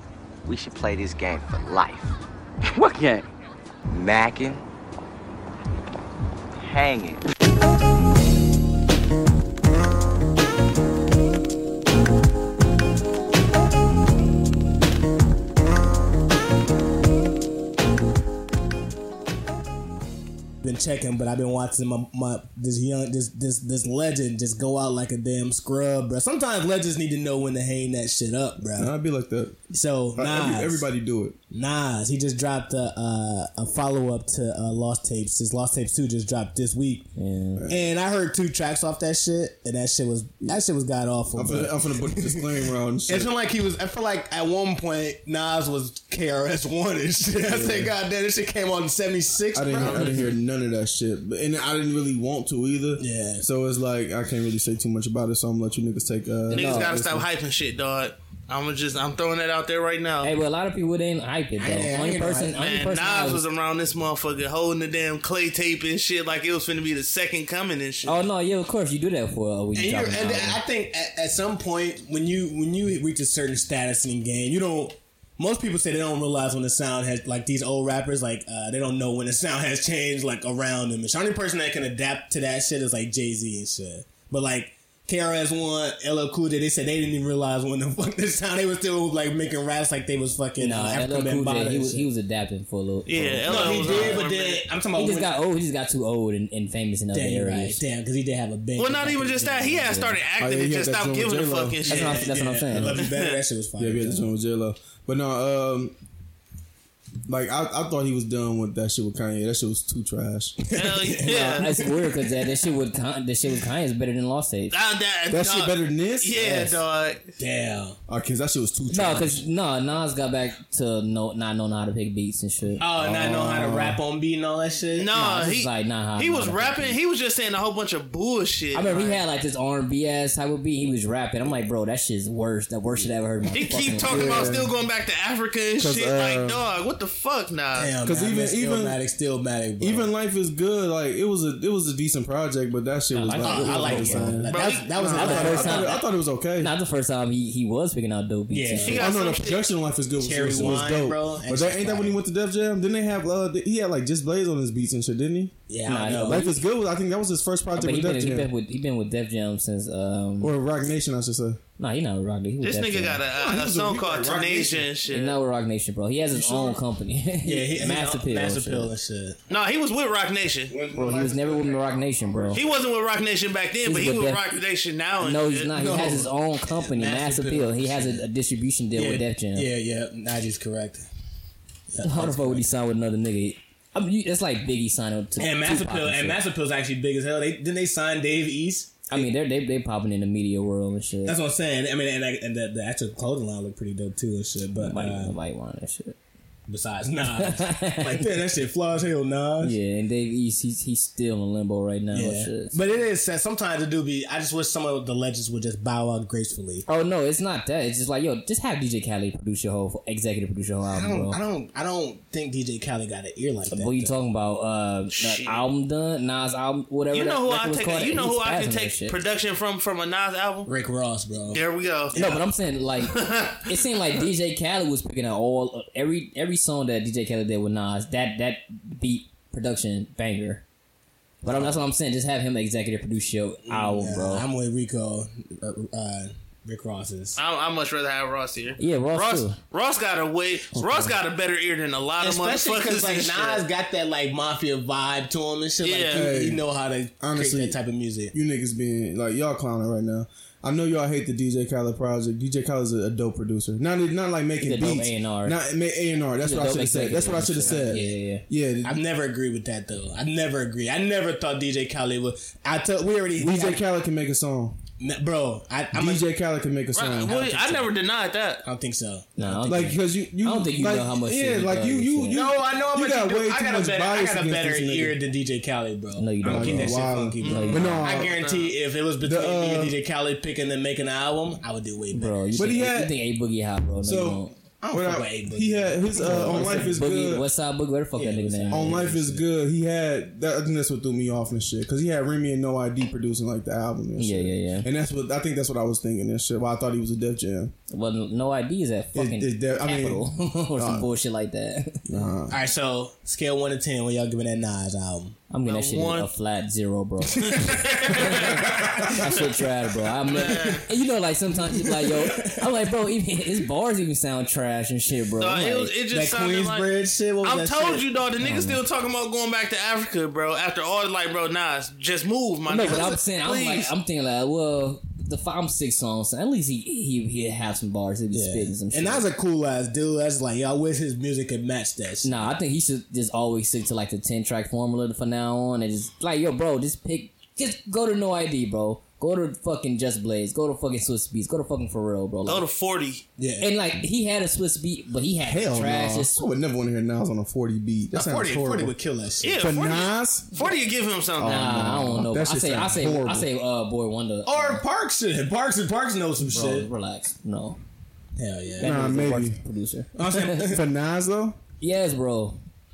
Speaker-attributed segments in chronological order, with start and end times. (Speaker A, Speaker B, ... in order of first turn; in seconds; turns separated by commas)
Speaker A: 0.4-2.1, Speaker A: 2.7-3.2, Speaker A: 3.9-4.6, Speaker A: 6.6-7.2, Speaker B: 20.6-28.9, Speaker C: 28.7-29.6, Speaker B: 29.7-30.9, Speaker C: 30.1-31.4, Speaker B: 31.5-37.1, Speaker D: 37.1-37.6, Speaker C: 37.5-37.9, Speaker B: 37.7-50.2, Speaker C: 41.3-43.3, Speaker C: 47.4-47.9, Speaker C: 49.5-57.2, Speaker E: 49.7-50.2, Speaker B: 53.0-53.5, Speaker D: 56.5-57.0, Speaker E: 56.5-60.3, Speaker D: 60.2-63.4, Speaker B: 61.6-62.6, Speaker E: 62.5-68.2, Speaker D: 68.0-70.6, Speaker B: 69.7-92.1, Speaker D: 90.6-94.2, Speaker E: 93.0-94.7, Speaker B: 93.4-95.3, Speaker D: 94.9-97.8, Speaker B: 97.1-100.2, Speaker E: 98.8-102.2, Speaker C: 100.4-101.9, Speaker D: 101.9-103.0, Speaker B: 101.9-104.3, Speaker E: 102.9-103.4, Speaker C: 103.8-106.0, Speaker C: 107.3-110.6, Speaker B: 110.6-112.3, Speaker E: 110.7-111.8, Speaker D: 111.2-114.7, Speaker E: 114.7-117.4, Speaker C: 115.3-116.4, Speaker B: 117.4-118.0, Speaker C: 118.1-119.4, Speaker D: 118.9-122.8, Speaker B: 122.8-125.1, Speaker C: 122.9-124.0, Speaker E: 124.9-129.2, Speaker D: 125.1-127.0, Speaker D: 128.7-134.4, Speaker E: 133.5-137.9, Speaker C: 134.1-134.7, Speaker C: 135.8-136.6, Speaker B: 137.7-140.1, Speaker C: 138.0-139.0, Speaker C: 139.8-146.7, Speaker D: 143.1-144.5, Speaker B: 143.4-146.0, Speaker E: 144.4-145.1, Speaker D: 145.1-146.0, Speaker D: 146.6-149.0, Speaker B: 148.5-149.0, Speaker E: 148.8-149.7, Speaker C: 148.9-155.5, Speaker B: 150.2-152.2, Speaker B: 155.7-156.5, Speaker D: 155.8-156.6, Speaker C: 156.1-158.5, Speaker D: 157.7-160.6, Speaker C: 160.4-161.6, Speaker D: 161.8-163.2, Speaker E: 162.6-165.4, Speaker C: 163.3-164.9, Speaker D: 165.1-168.9, Speaker C: 166.3-166.8, Speaker B: 167.4-169.4, Speaker E: 169.5-170.7, Speaker C: 170.7-172.8, Speaker D: 170.9-172.6, Speaker E: 172.5-175.8, Speaker D: 173.8-174.6, Speaker D: 175.2-179.7, Speaker B: 175.7-178.2, Speaker B: 178.9-181.1, Speaker B: 181.9-182.7, Speaker D: 182.0-186.4, Speaker B: 185.4-189.3, Speaker D: 189.1-191.4, Speaker B: 191.2-195.3, Speaker D: 194.8-196.2, Speaker B: 196.7-199.8, Speaker D: 197.3-198.3, Speaker D: 199.6-202.8, Speaker B: 202.1-206.8, Speaker D: 206.9-211.4, Speaker B: 210.9-214.1, Speaker D: 213.7-219.2, Speaker E: 215.1-215.7, Speaker E: 217.1-220.7, Speaker B: 220.7-221.6, Speaker E: 221.5-222.4, Speaker D: 222.1-230.6, Speaker B: 222.1-222.4, Speaker E: 223.0-223.8, Speaker D: 231.4-234.5, Speaker B: 231.5-231.8, Speaker B: 233.7-237.4, Speaker E: 237.3-243.7, Speaker D: 238.8-239.6, Speaker C: 240.7-241.1, Speaker B: 242.2-248.3, Speaker E: 245.8-246.3, Speaker C: 246.1-246.7, Speaker C: 247.2-247.8, Speaker C: 248.3-259.0, Speaker D: 254.6-255.6, Speaker D: 256.4-258.5, Speaker B: 257.7-257.9, Speaker B: 258.8-263.8, Speaker C: 263.3-264.8, Speaker B: 265.0-266.3, Speaker C: 265.9-267.4, Speaker E: 266.9-268.6, Speaker B: 267.3-267.6, Speaker B: 268.6-269.9, Speaker D: 269.4-272.5, Speaker C: 269.6-275.2, Speaker B: 272.3-282.8, Speaker D: 276.1-278.1, Speaker C: 276.4-278.3, Speaker E: 277.4-278.7, Speaker C: 279.2-280.0, Speaker D: 282.1-284.5, Speaker C: 282.6-283.2, Speaker C: 284.0-287.5, Speaker B: 284.9-287.0, Speaker D: 286.1-289.4, Speaker B: 288.1-289.1, Speaker C: 288.7-297.7, Speaker D: 294.2-294.9, Speaker D: 297.9-302.0, Speaker C: 299.1-301.1, Speaker C: 302.1-302.6, Speaker B: 302.5-305.4, Speaker D: 305.5-308.5, Speaker E: 305.6-306.3, Speaker B: 307.4-309.5, Speaker E: 307.5-308.4, Speaker C: 308.3-308.8, Speaker D: 309.1-315.9, Speaker E: 310.2-310.9, Speaker B: 310.4-310.8, Speaker B: 311.7-312.7, Speaker E: 315.4-323.9, Speaker B: 316.1-318.1, Speaker D: 318.4-318.8, Speaker D: 322.7-329.2, Speaker B: 328.3-332.4, Speaker D: 332.2-342.6, Speaker E: 342.4-343.2, Speaker B: 343.4-343.7, Speaker D: 343.6-346.4, Speaker C: 345.4-348.9, Speaker B: 348.1-349.6, Speaker E: 349.4-351.6, Speaker C: 349.5-350.7, Speaker C: 351.4-353.5, Speaker D: 351.4-354.8, Speaker B: 354.4-356.9, Speaker D: 356.4-357.8, Speaker B: 358.4-358.9, Speaker D: 358.8-360.7, Speaker C: 358.8-359.6, Speaker B: 360.1-360.8, Speaker C: 360.6-361.6, Speaker D: 361.8-362.6